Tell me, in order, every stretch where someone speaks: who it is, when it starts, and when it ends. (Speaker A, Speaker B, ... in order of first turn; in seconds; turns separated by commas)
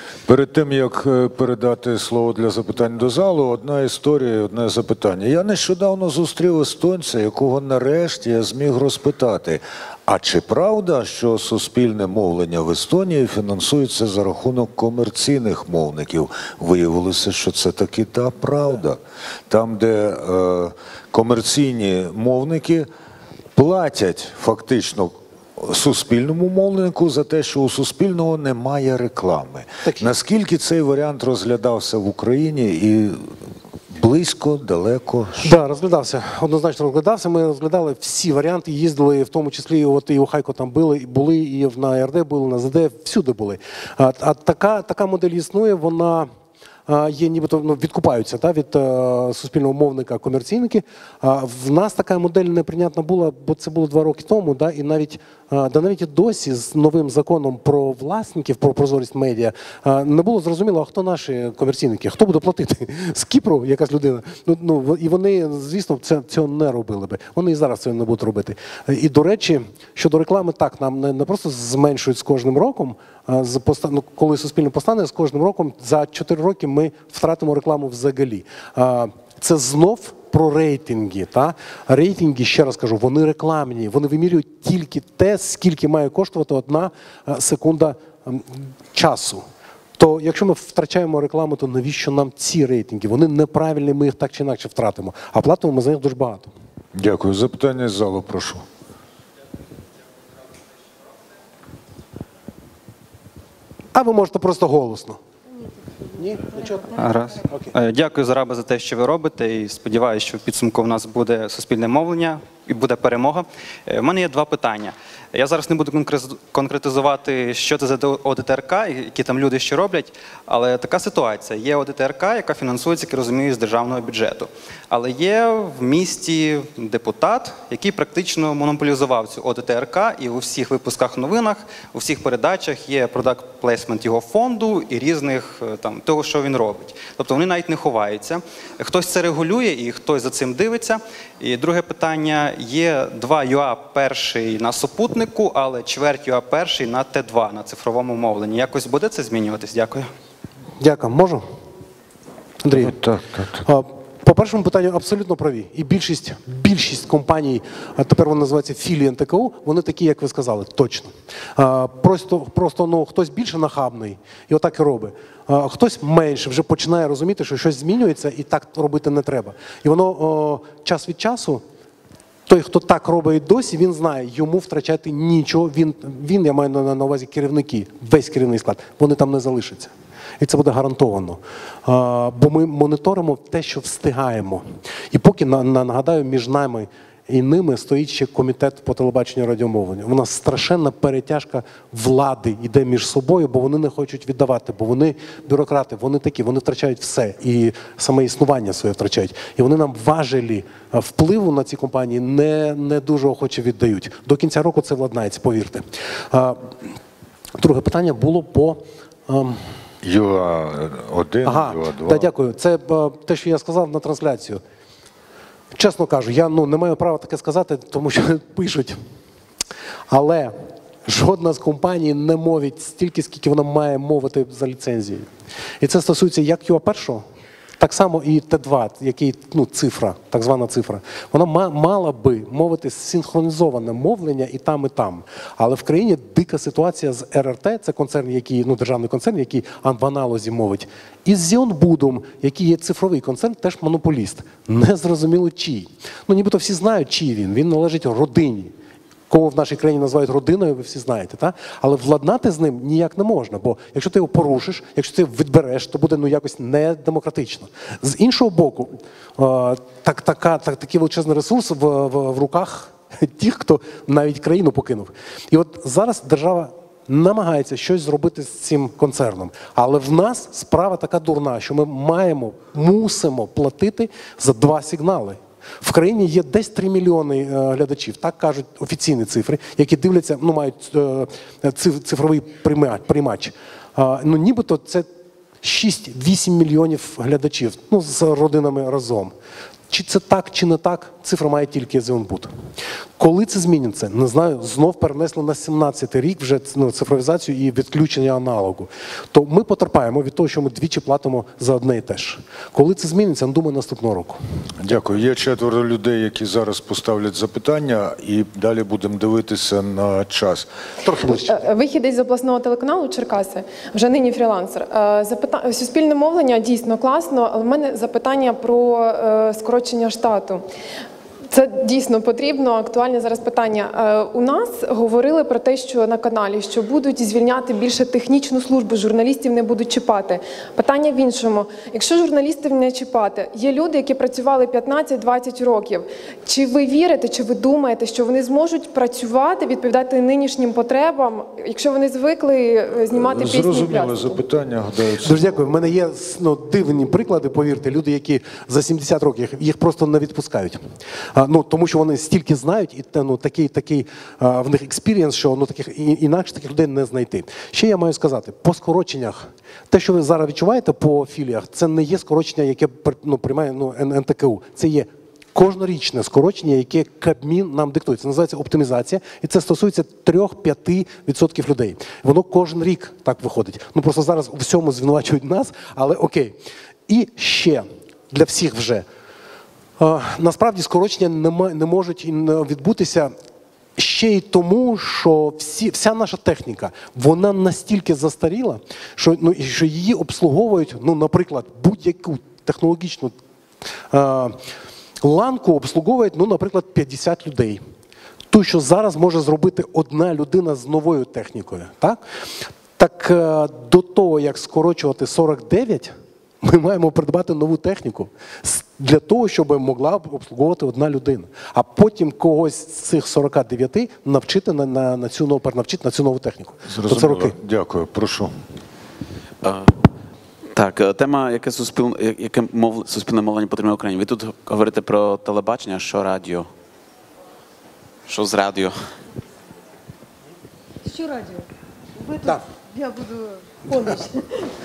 Speaker A: 0.3-22.9, Speaker A: 23.5-33.2, Speaker B: 29.8-30.1, Speaker A: 33.9-35.5, Speaker B: 35.4-46.3, Speaker B: 46.9-89.4, Speaker B: 90.0-96.5, Speaker A: 97.0-98.6, Speaker B: 103.9-105.2, Speaker B: 106.1-106.9, Speaker C: 106.9-150.1, Speaker B: 107.5-107.7, Speaker B: 150.8-151.4, Speaker B: 152.6-152.9, Speaker A: 152.7-153.6, Speaker B: 153.6-171.6, Speaker B: 172.5-206.8, Speaker B: 207.6-209.6, Speaker A: 210.0-212.3, Speaker B: 211.4-214.6, Speaker B: 215.7-219.0, Speaker B: 220.1-220.5, Speaker B: 221.1-225.3, Speaker B: 225.8-227.2, Speaker B: 227.8-248.7, Speaker B: 249.3-285.1, Speaker B: 285.6-289.3, Speaker B: 289.9-292.5, Speaker B: 293.2-304.4, Speaker A: 304.8-310.7, Speaker B: 311.0-311.6, Speaker D: 311.5-320.7, Speaker D: 321.5-344.4, Speaker A: 343.1-345.5, Speaker B: 345.2-350.8, Speaker B: 351.3-379.1, Speaker B: 380.0-383.3, Speaker B: 384.0-393.4, Speaker B: 394.1-394.6, Speaker B: 395.2-397.8, Speaker B: 398.5-402.2, Speaker B: 403.0-417.6, Speaker A: 416.9-418.5, Speaker E: 419.6-419.9, Speaker E: 420.7-426.7, Speaker E: 428.3-428.9, Speaker F: 431.1-431.6, Speaker F: 432.2-434.5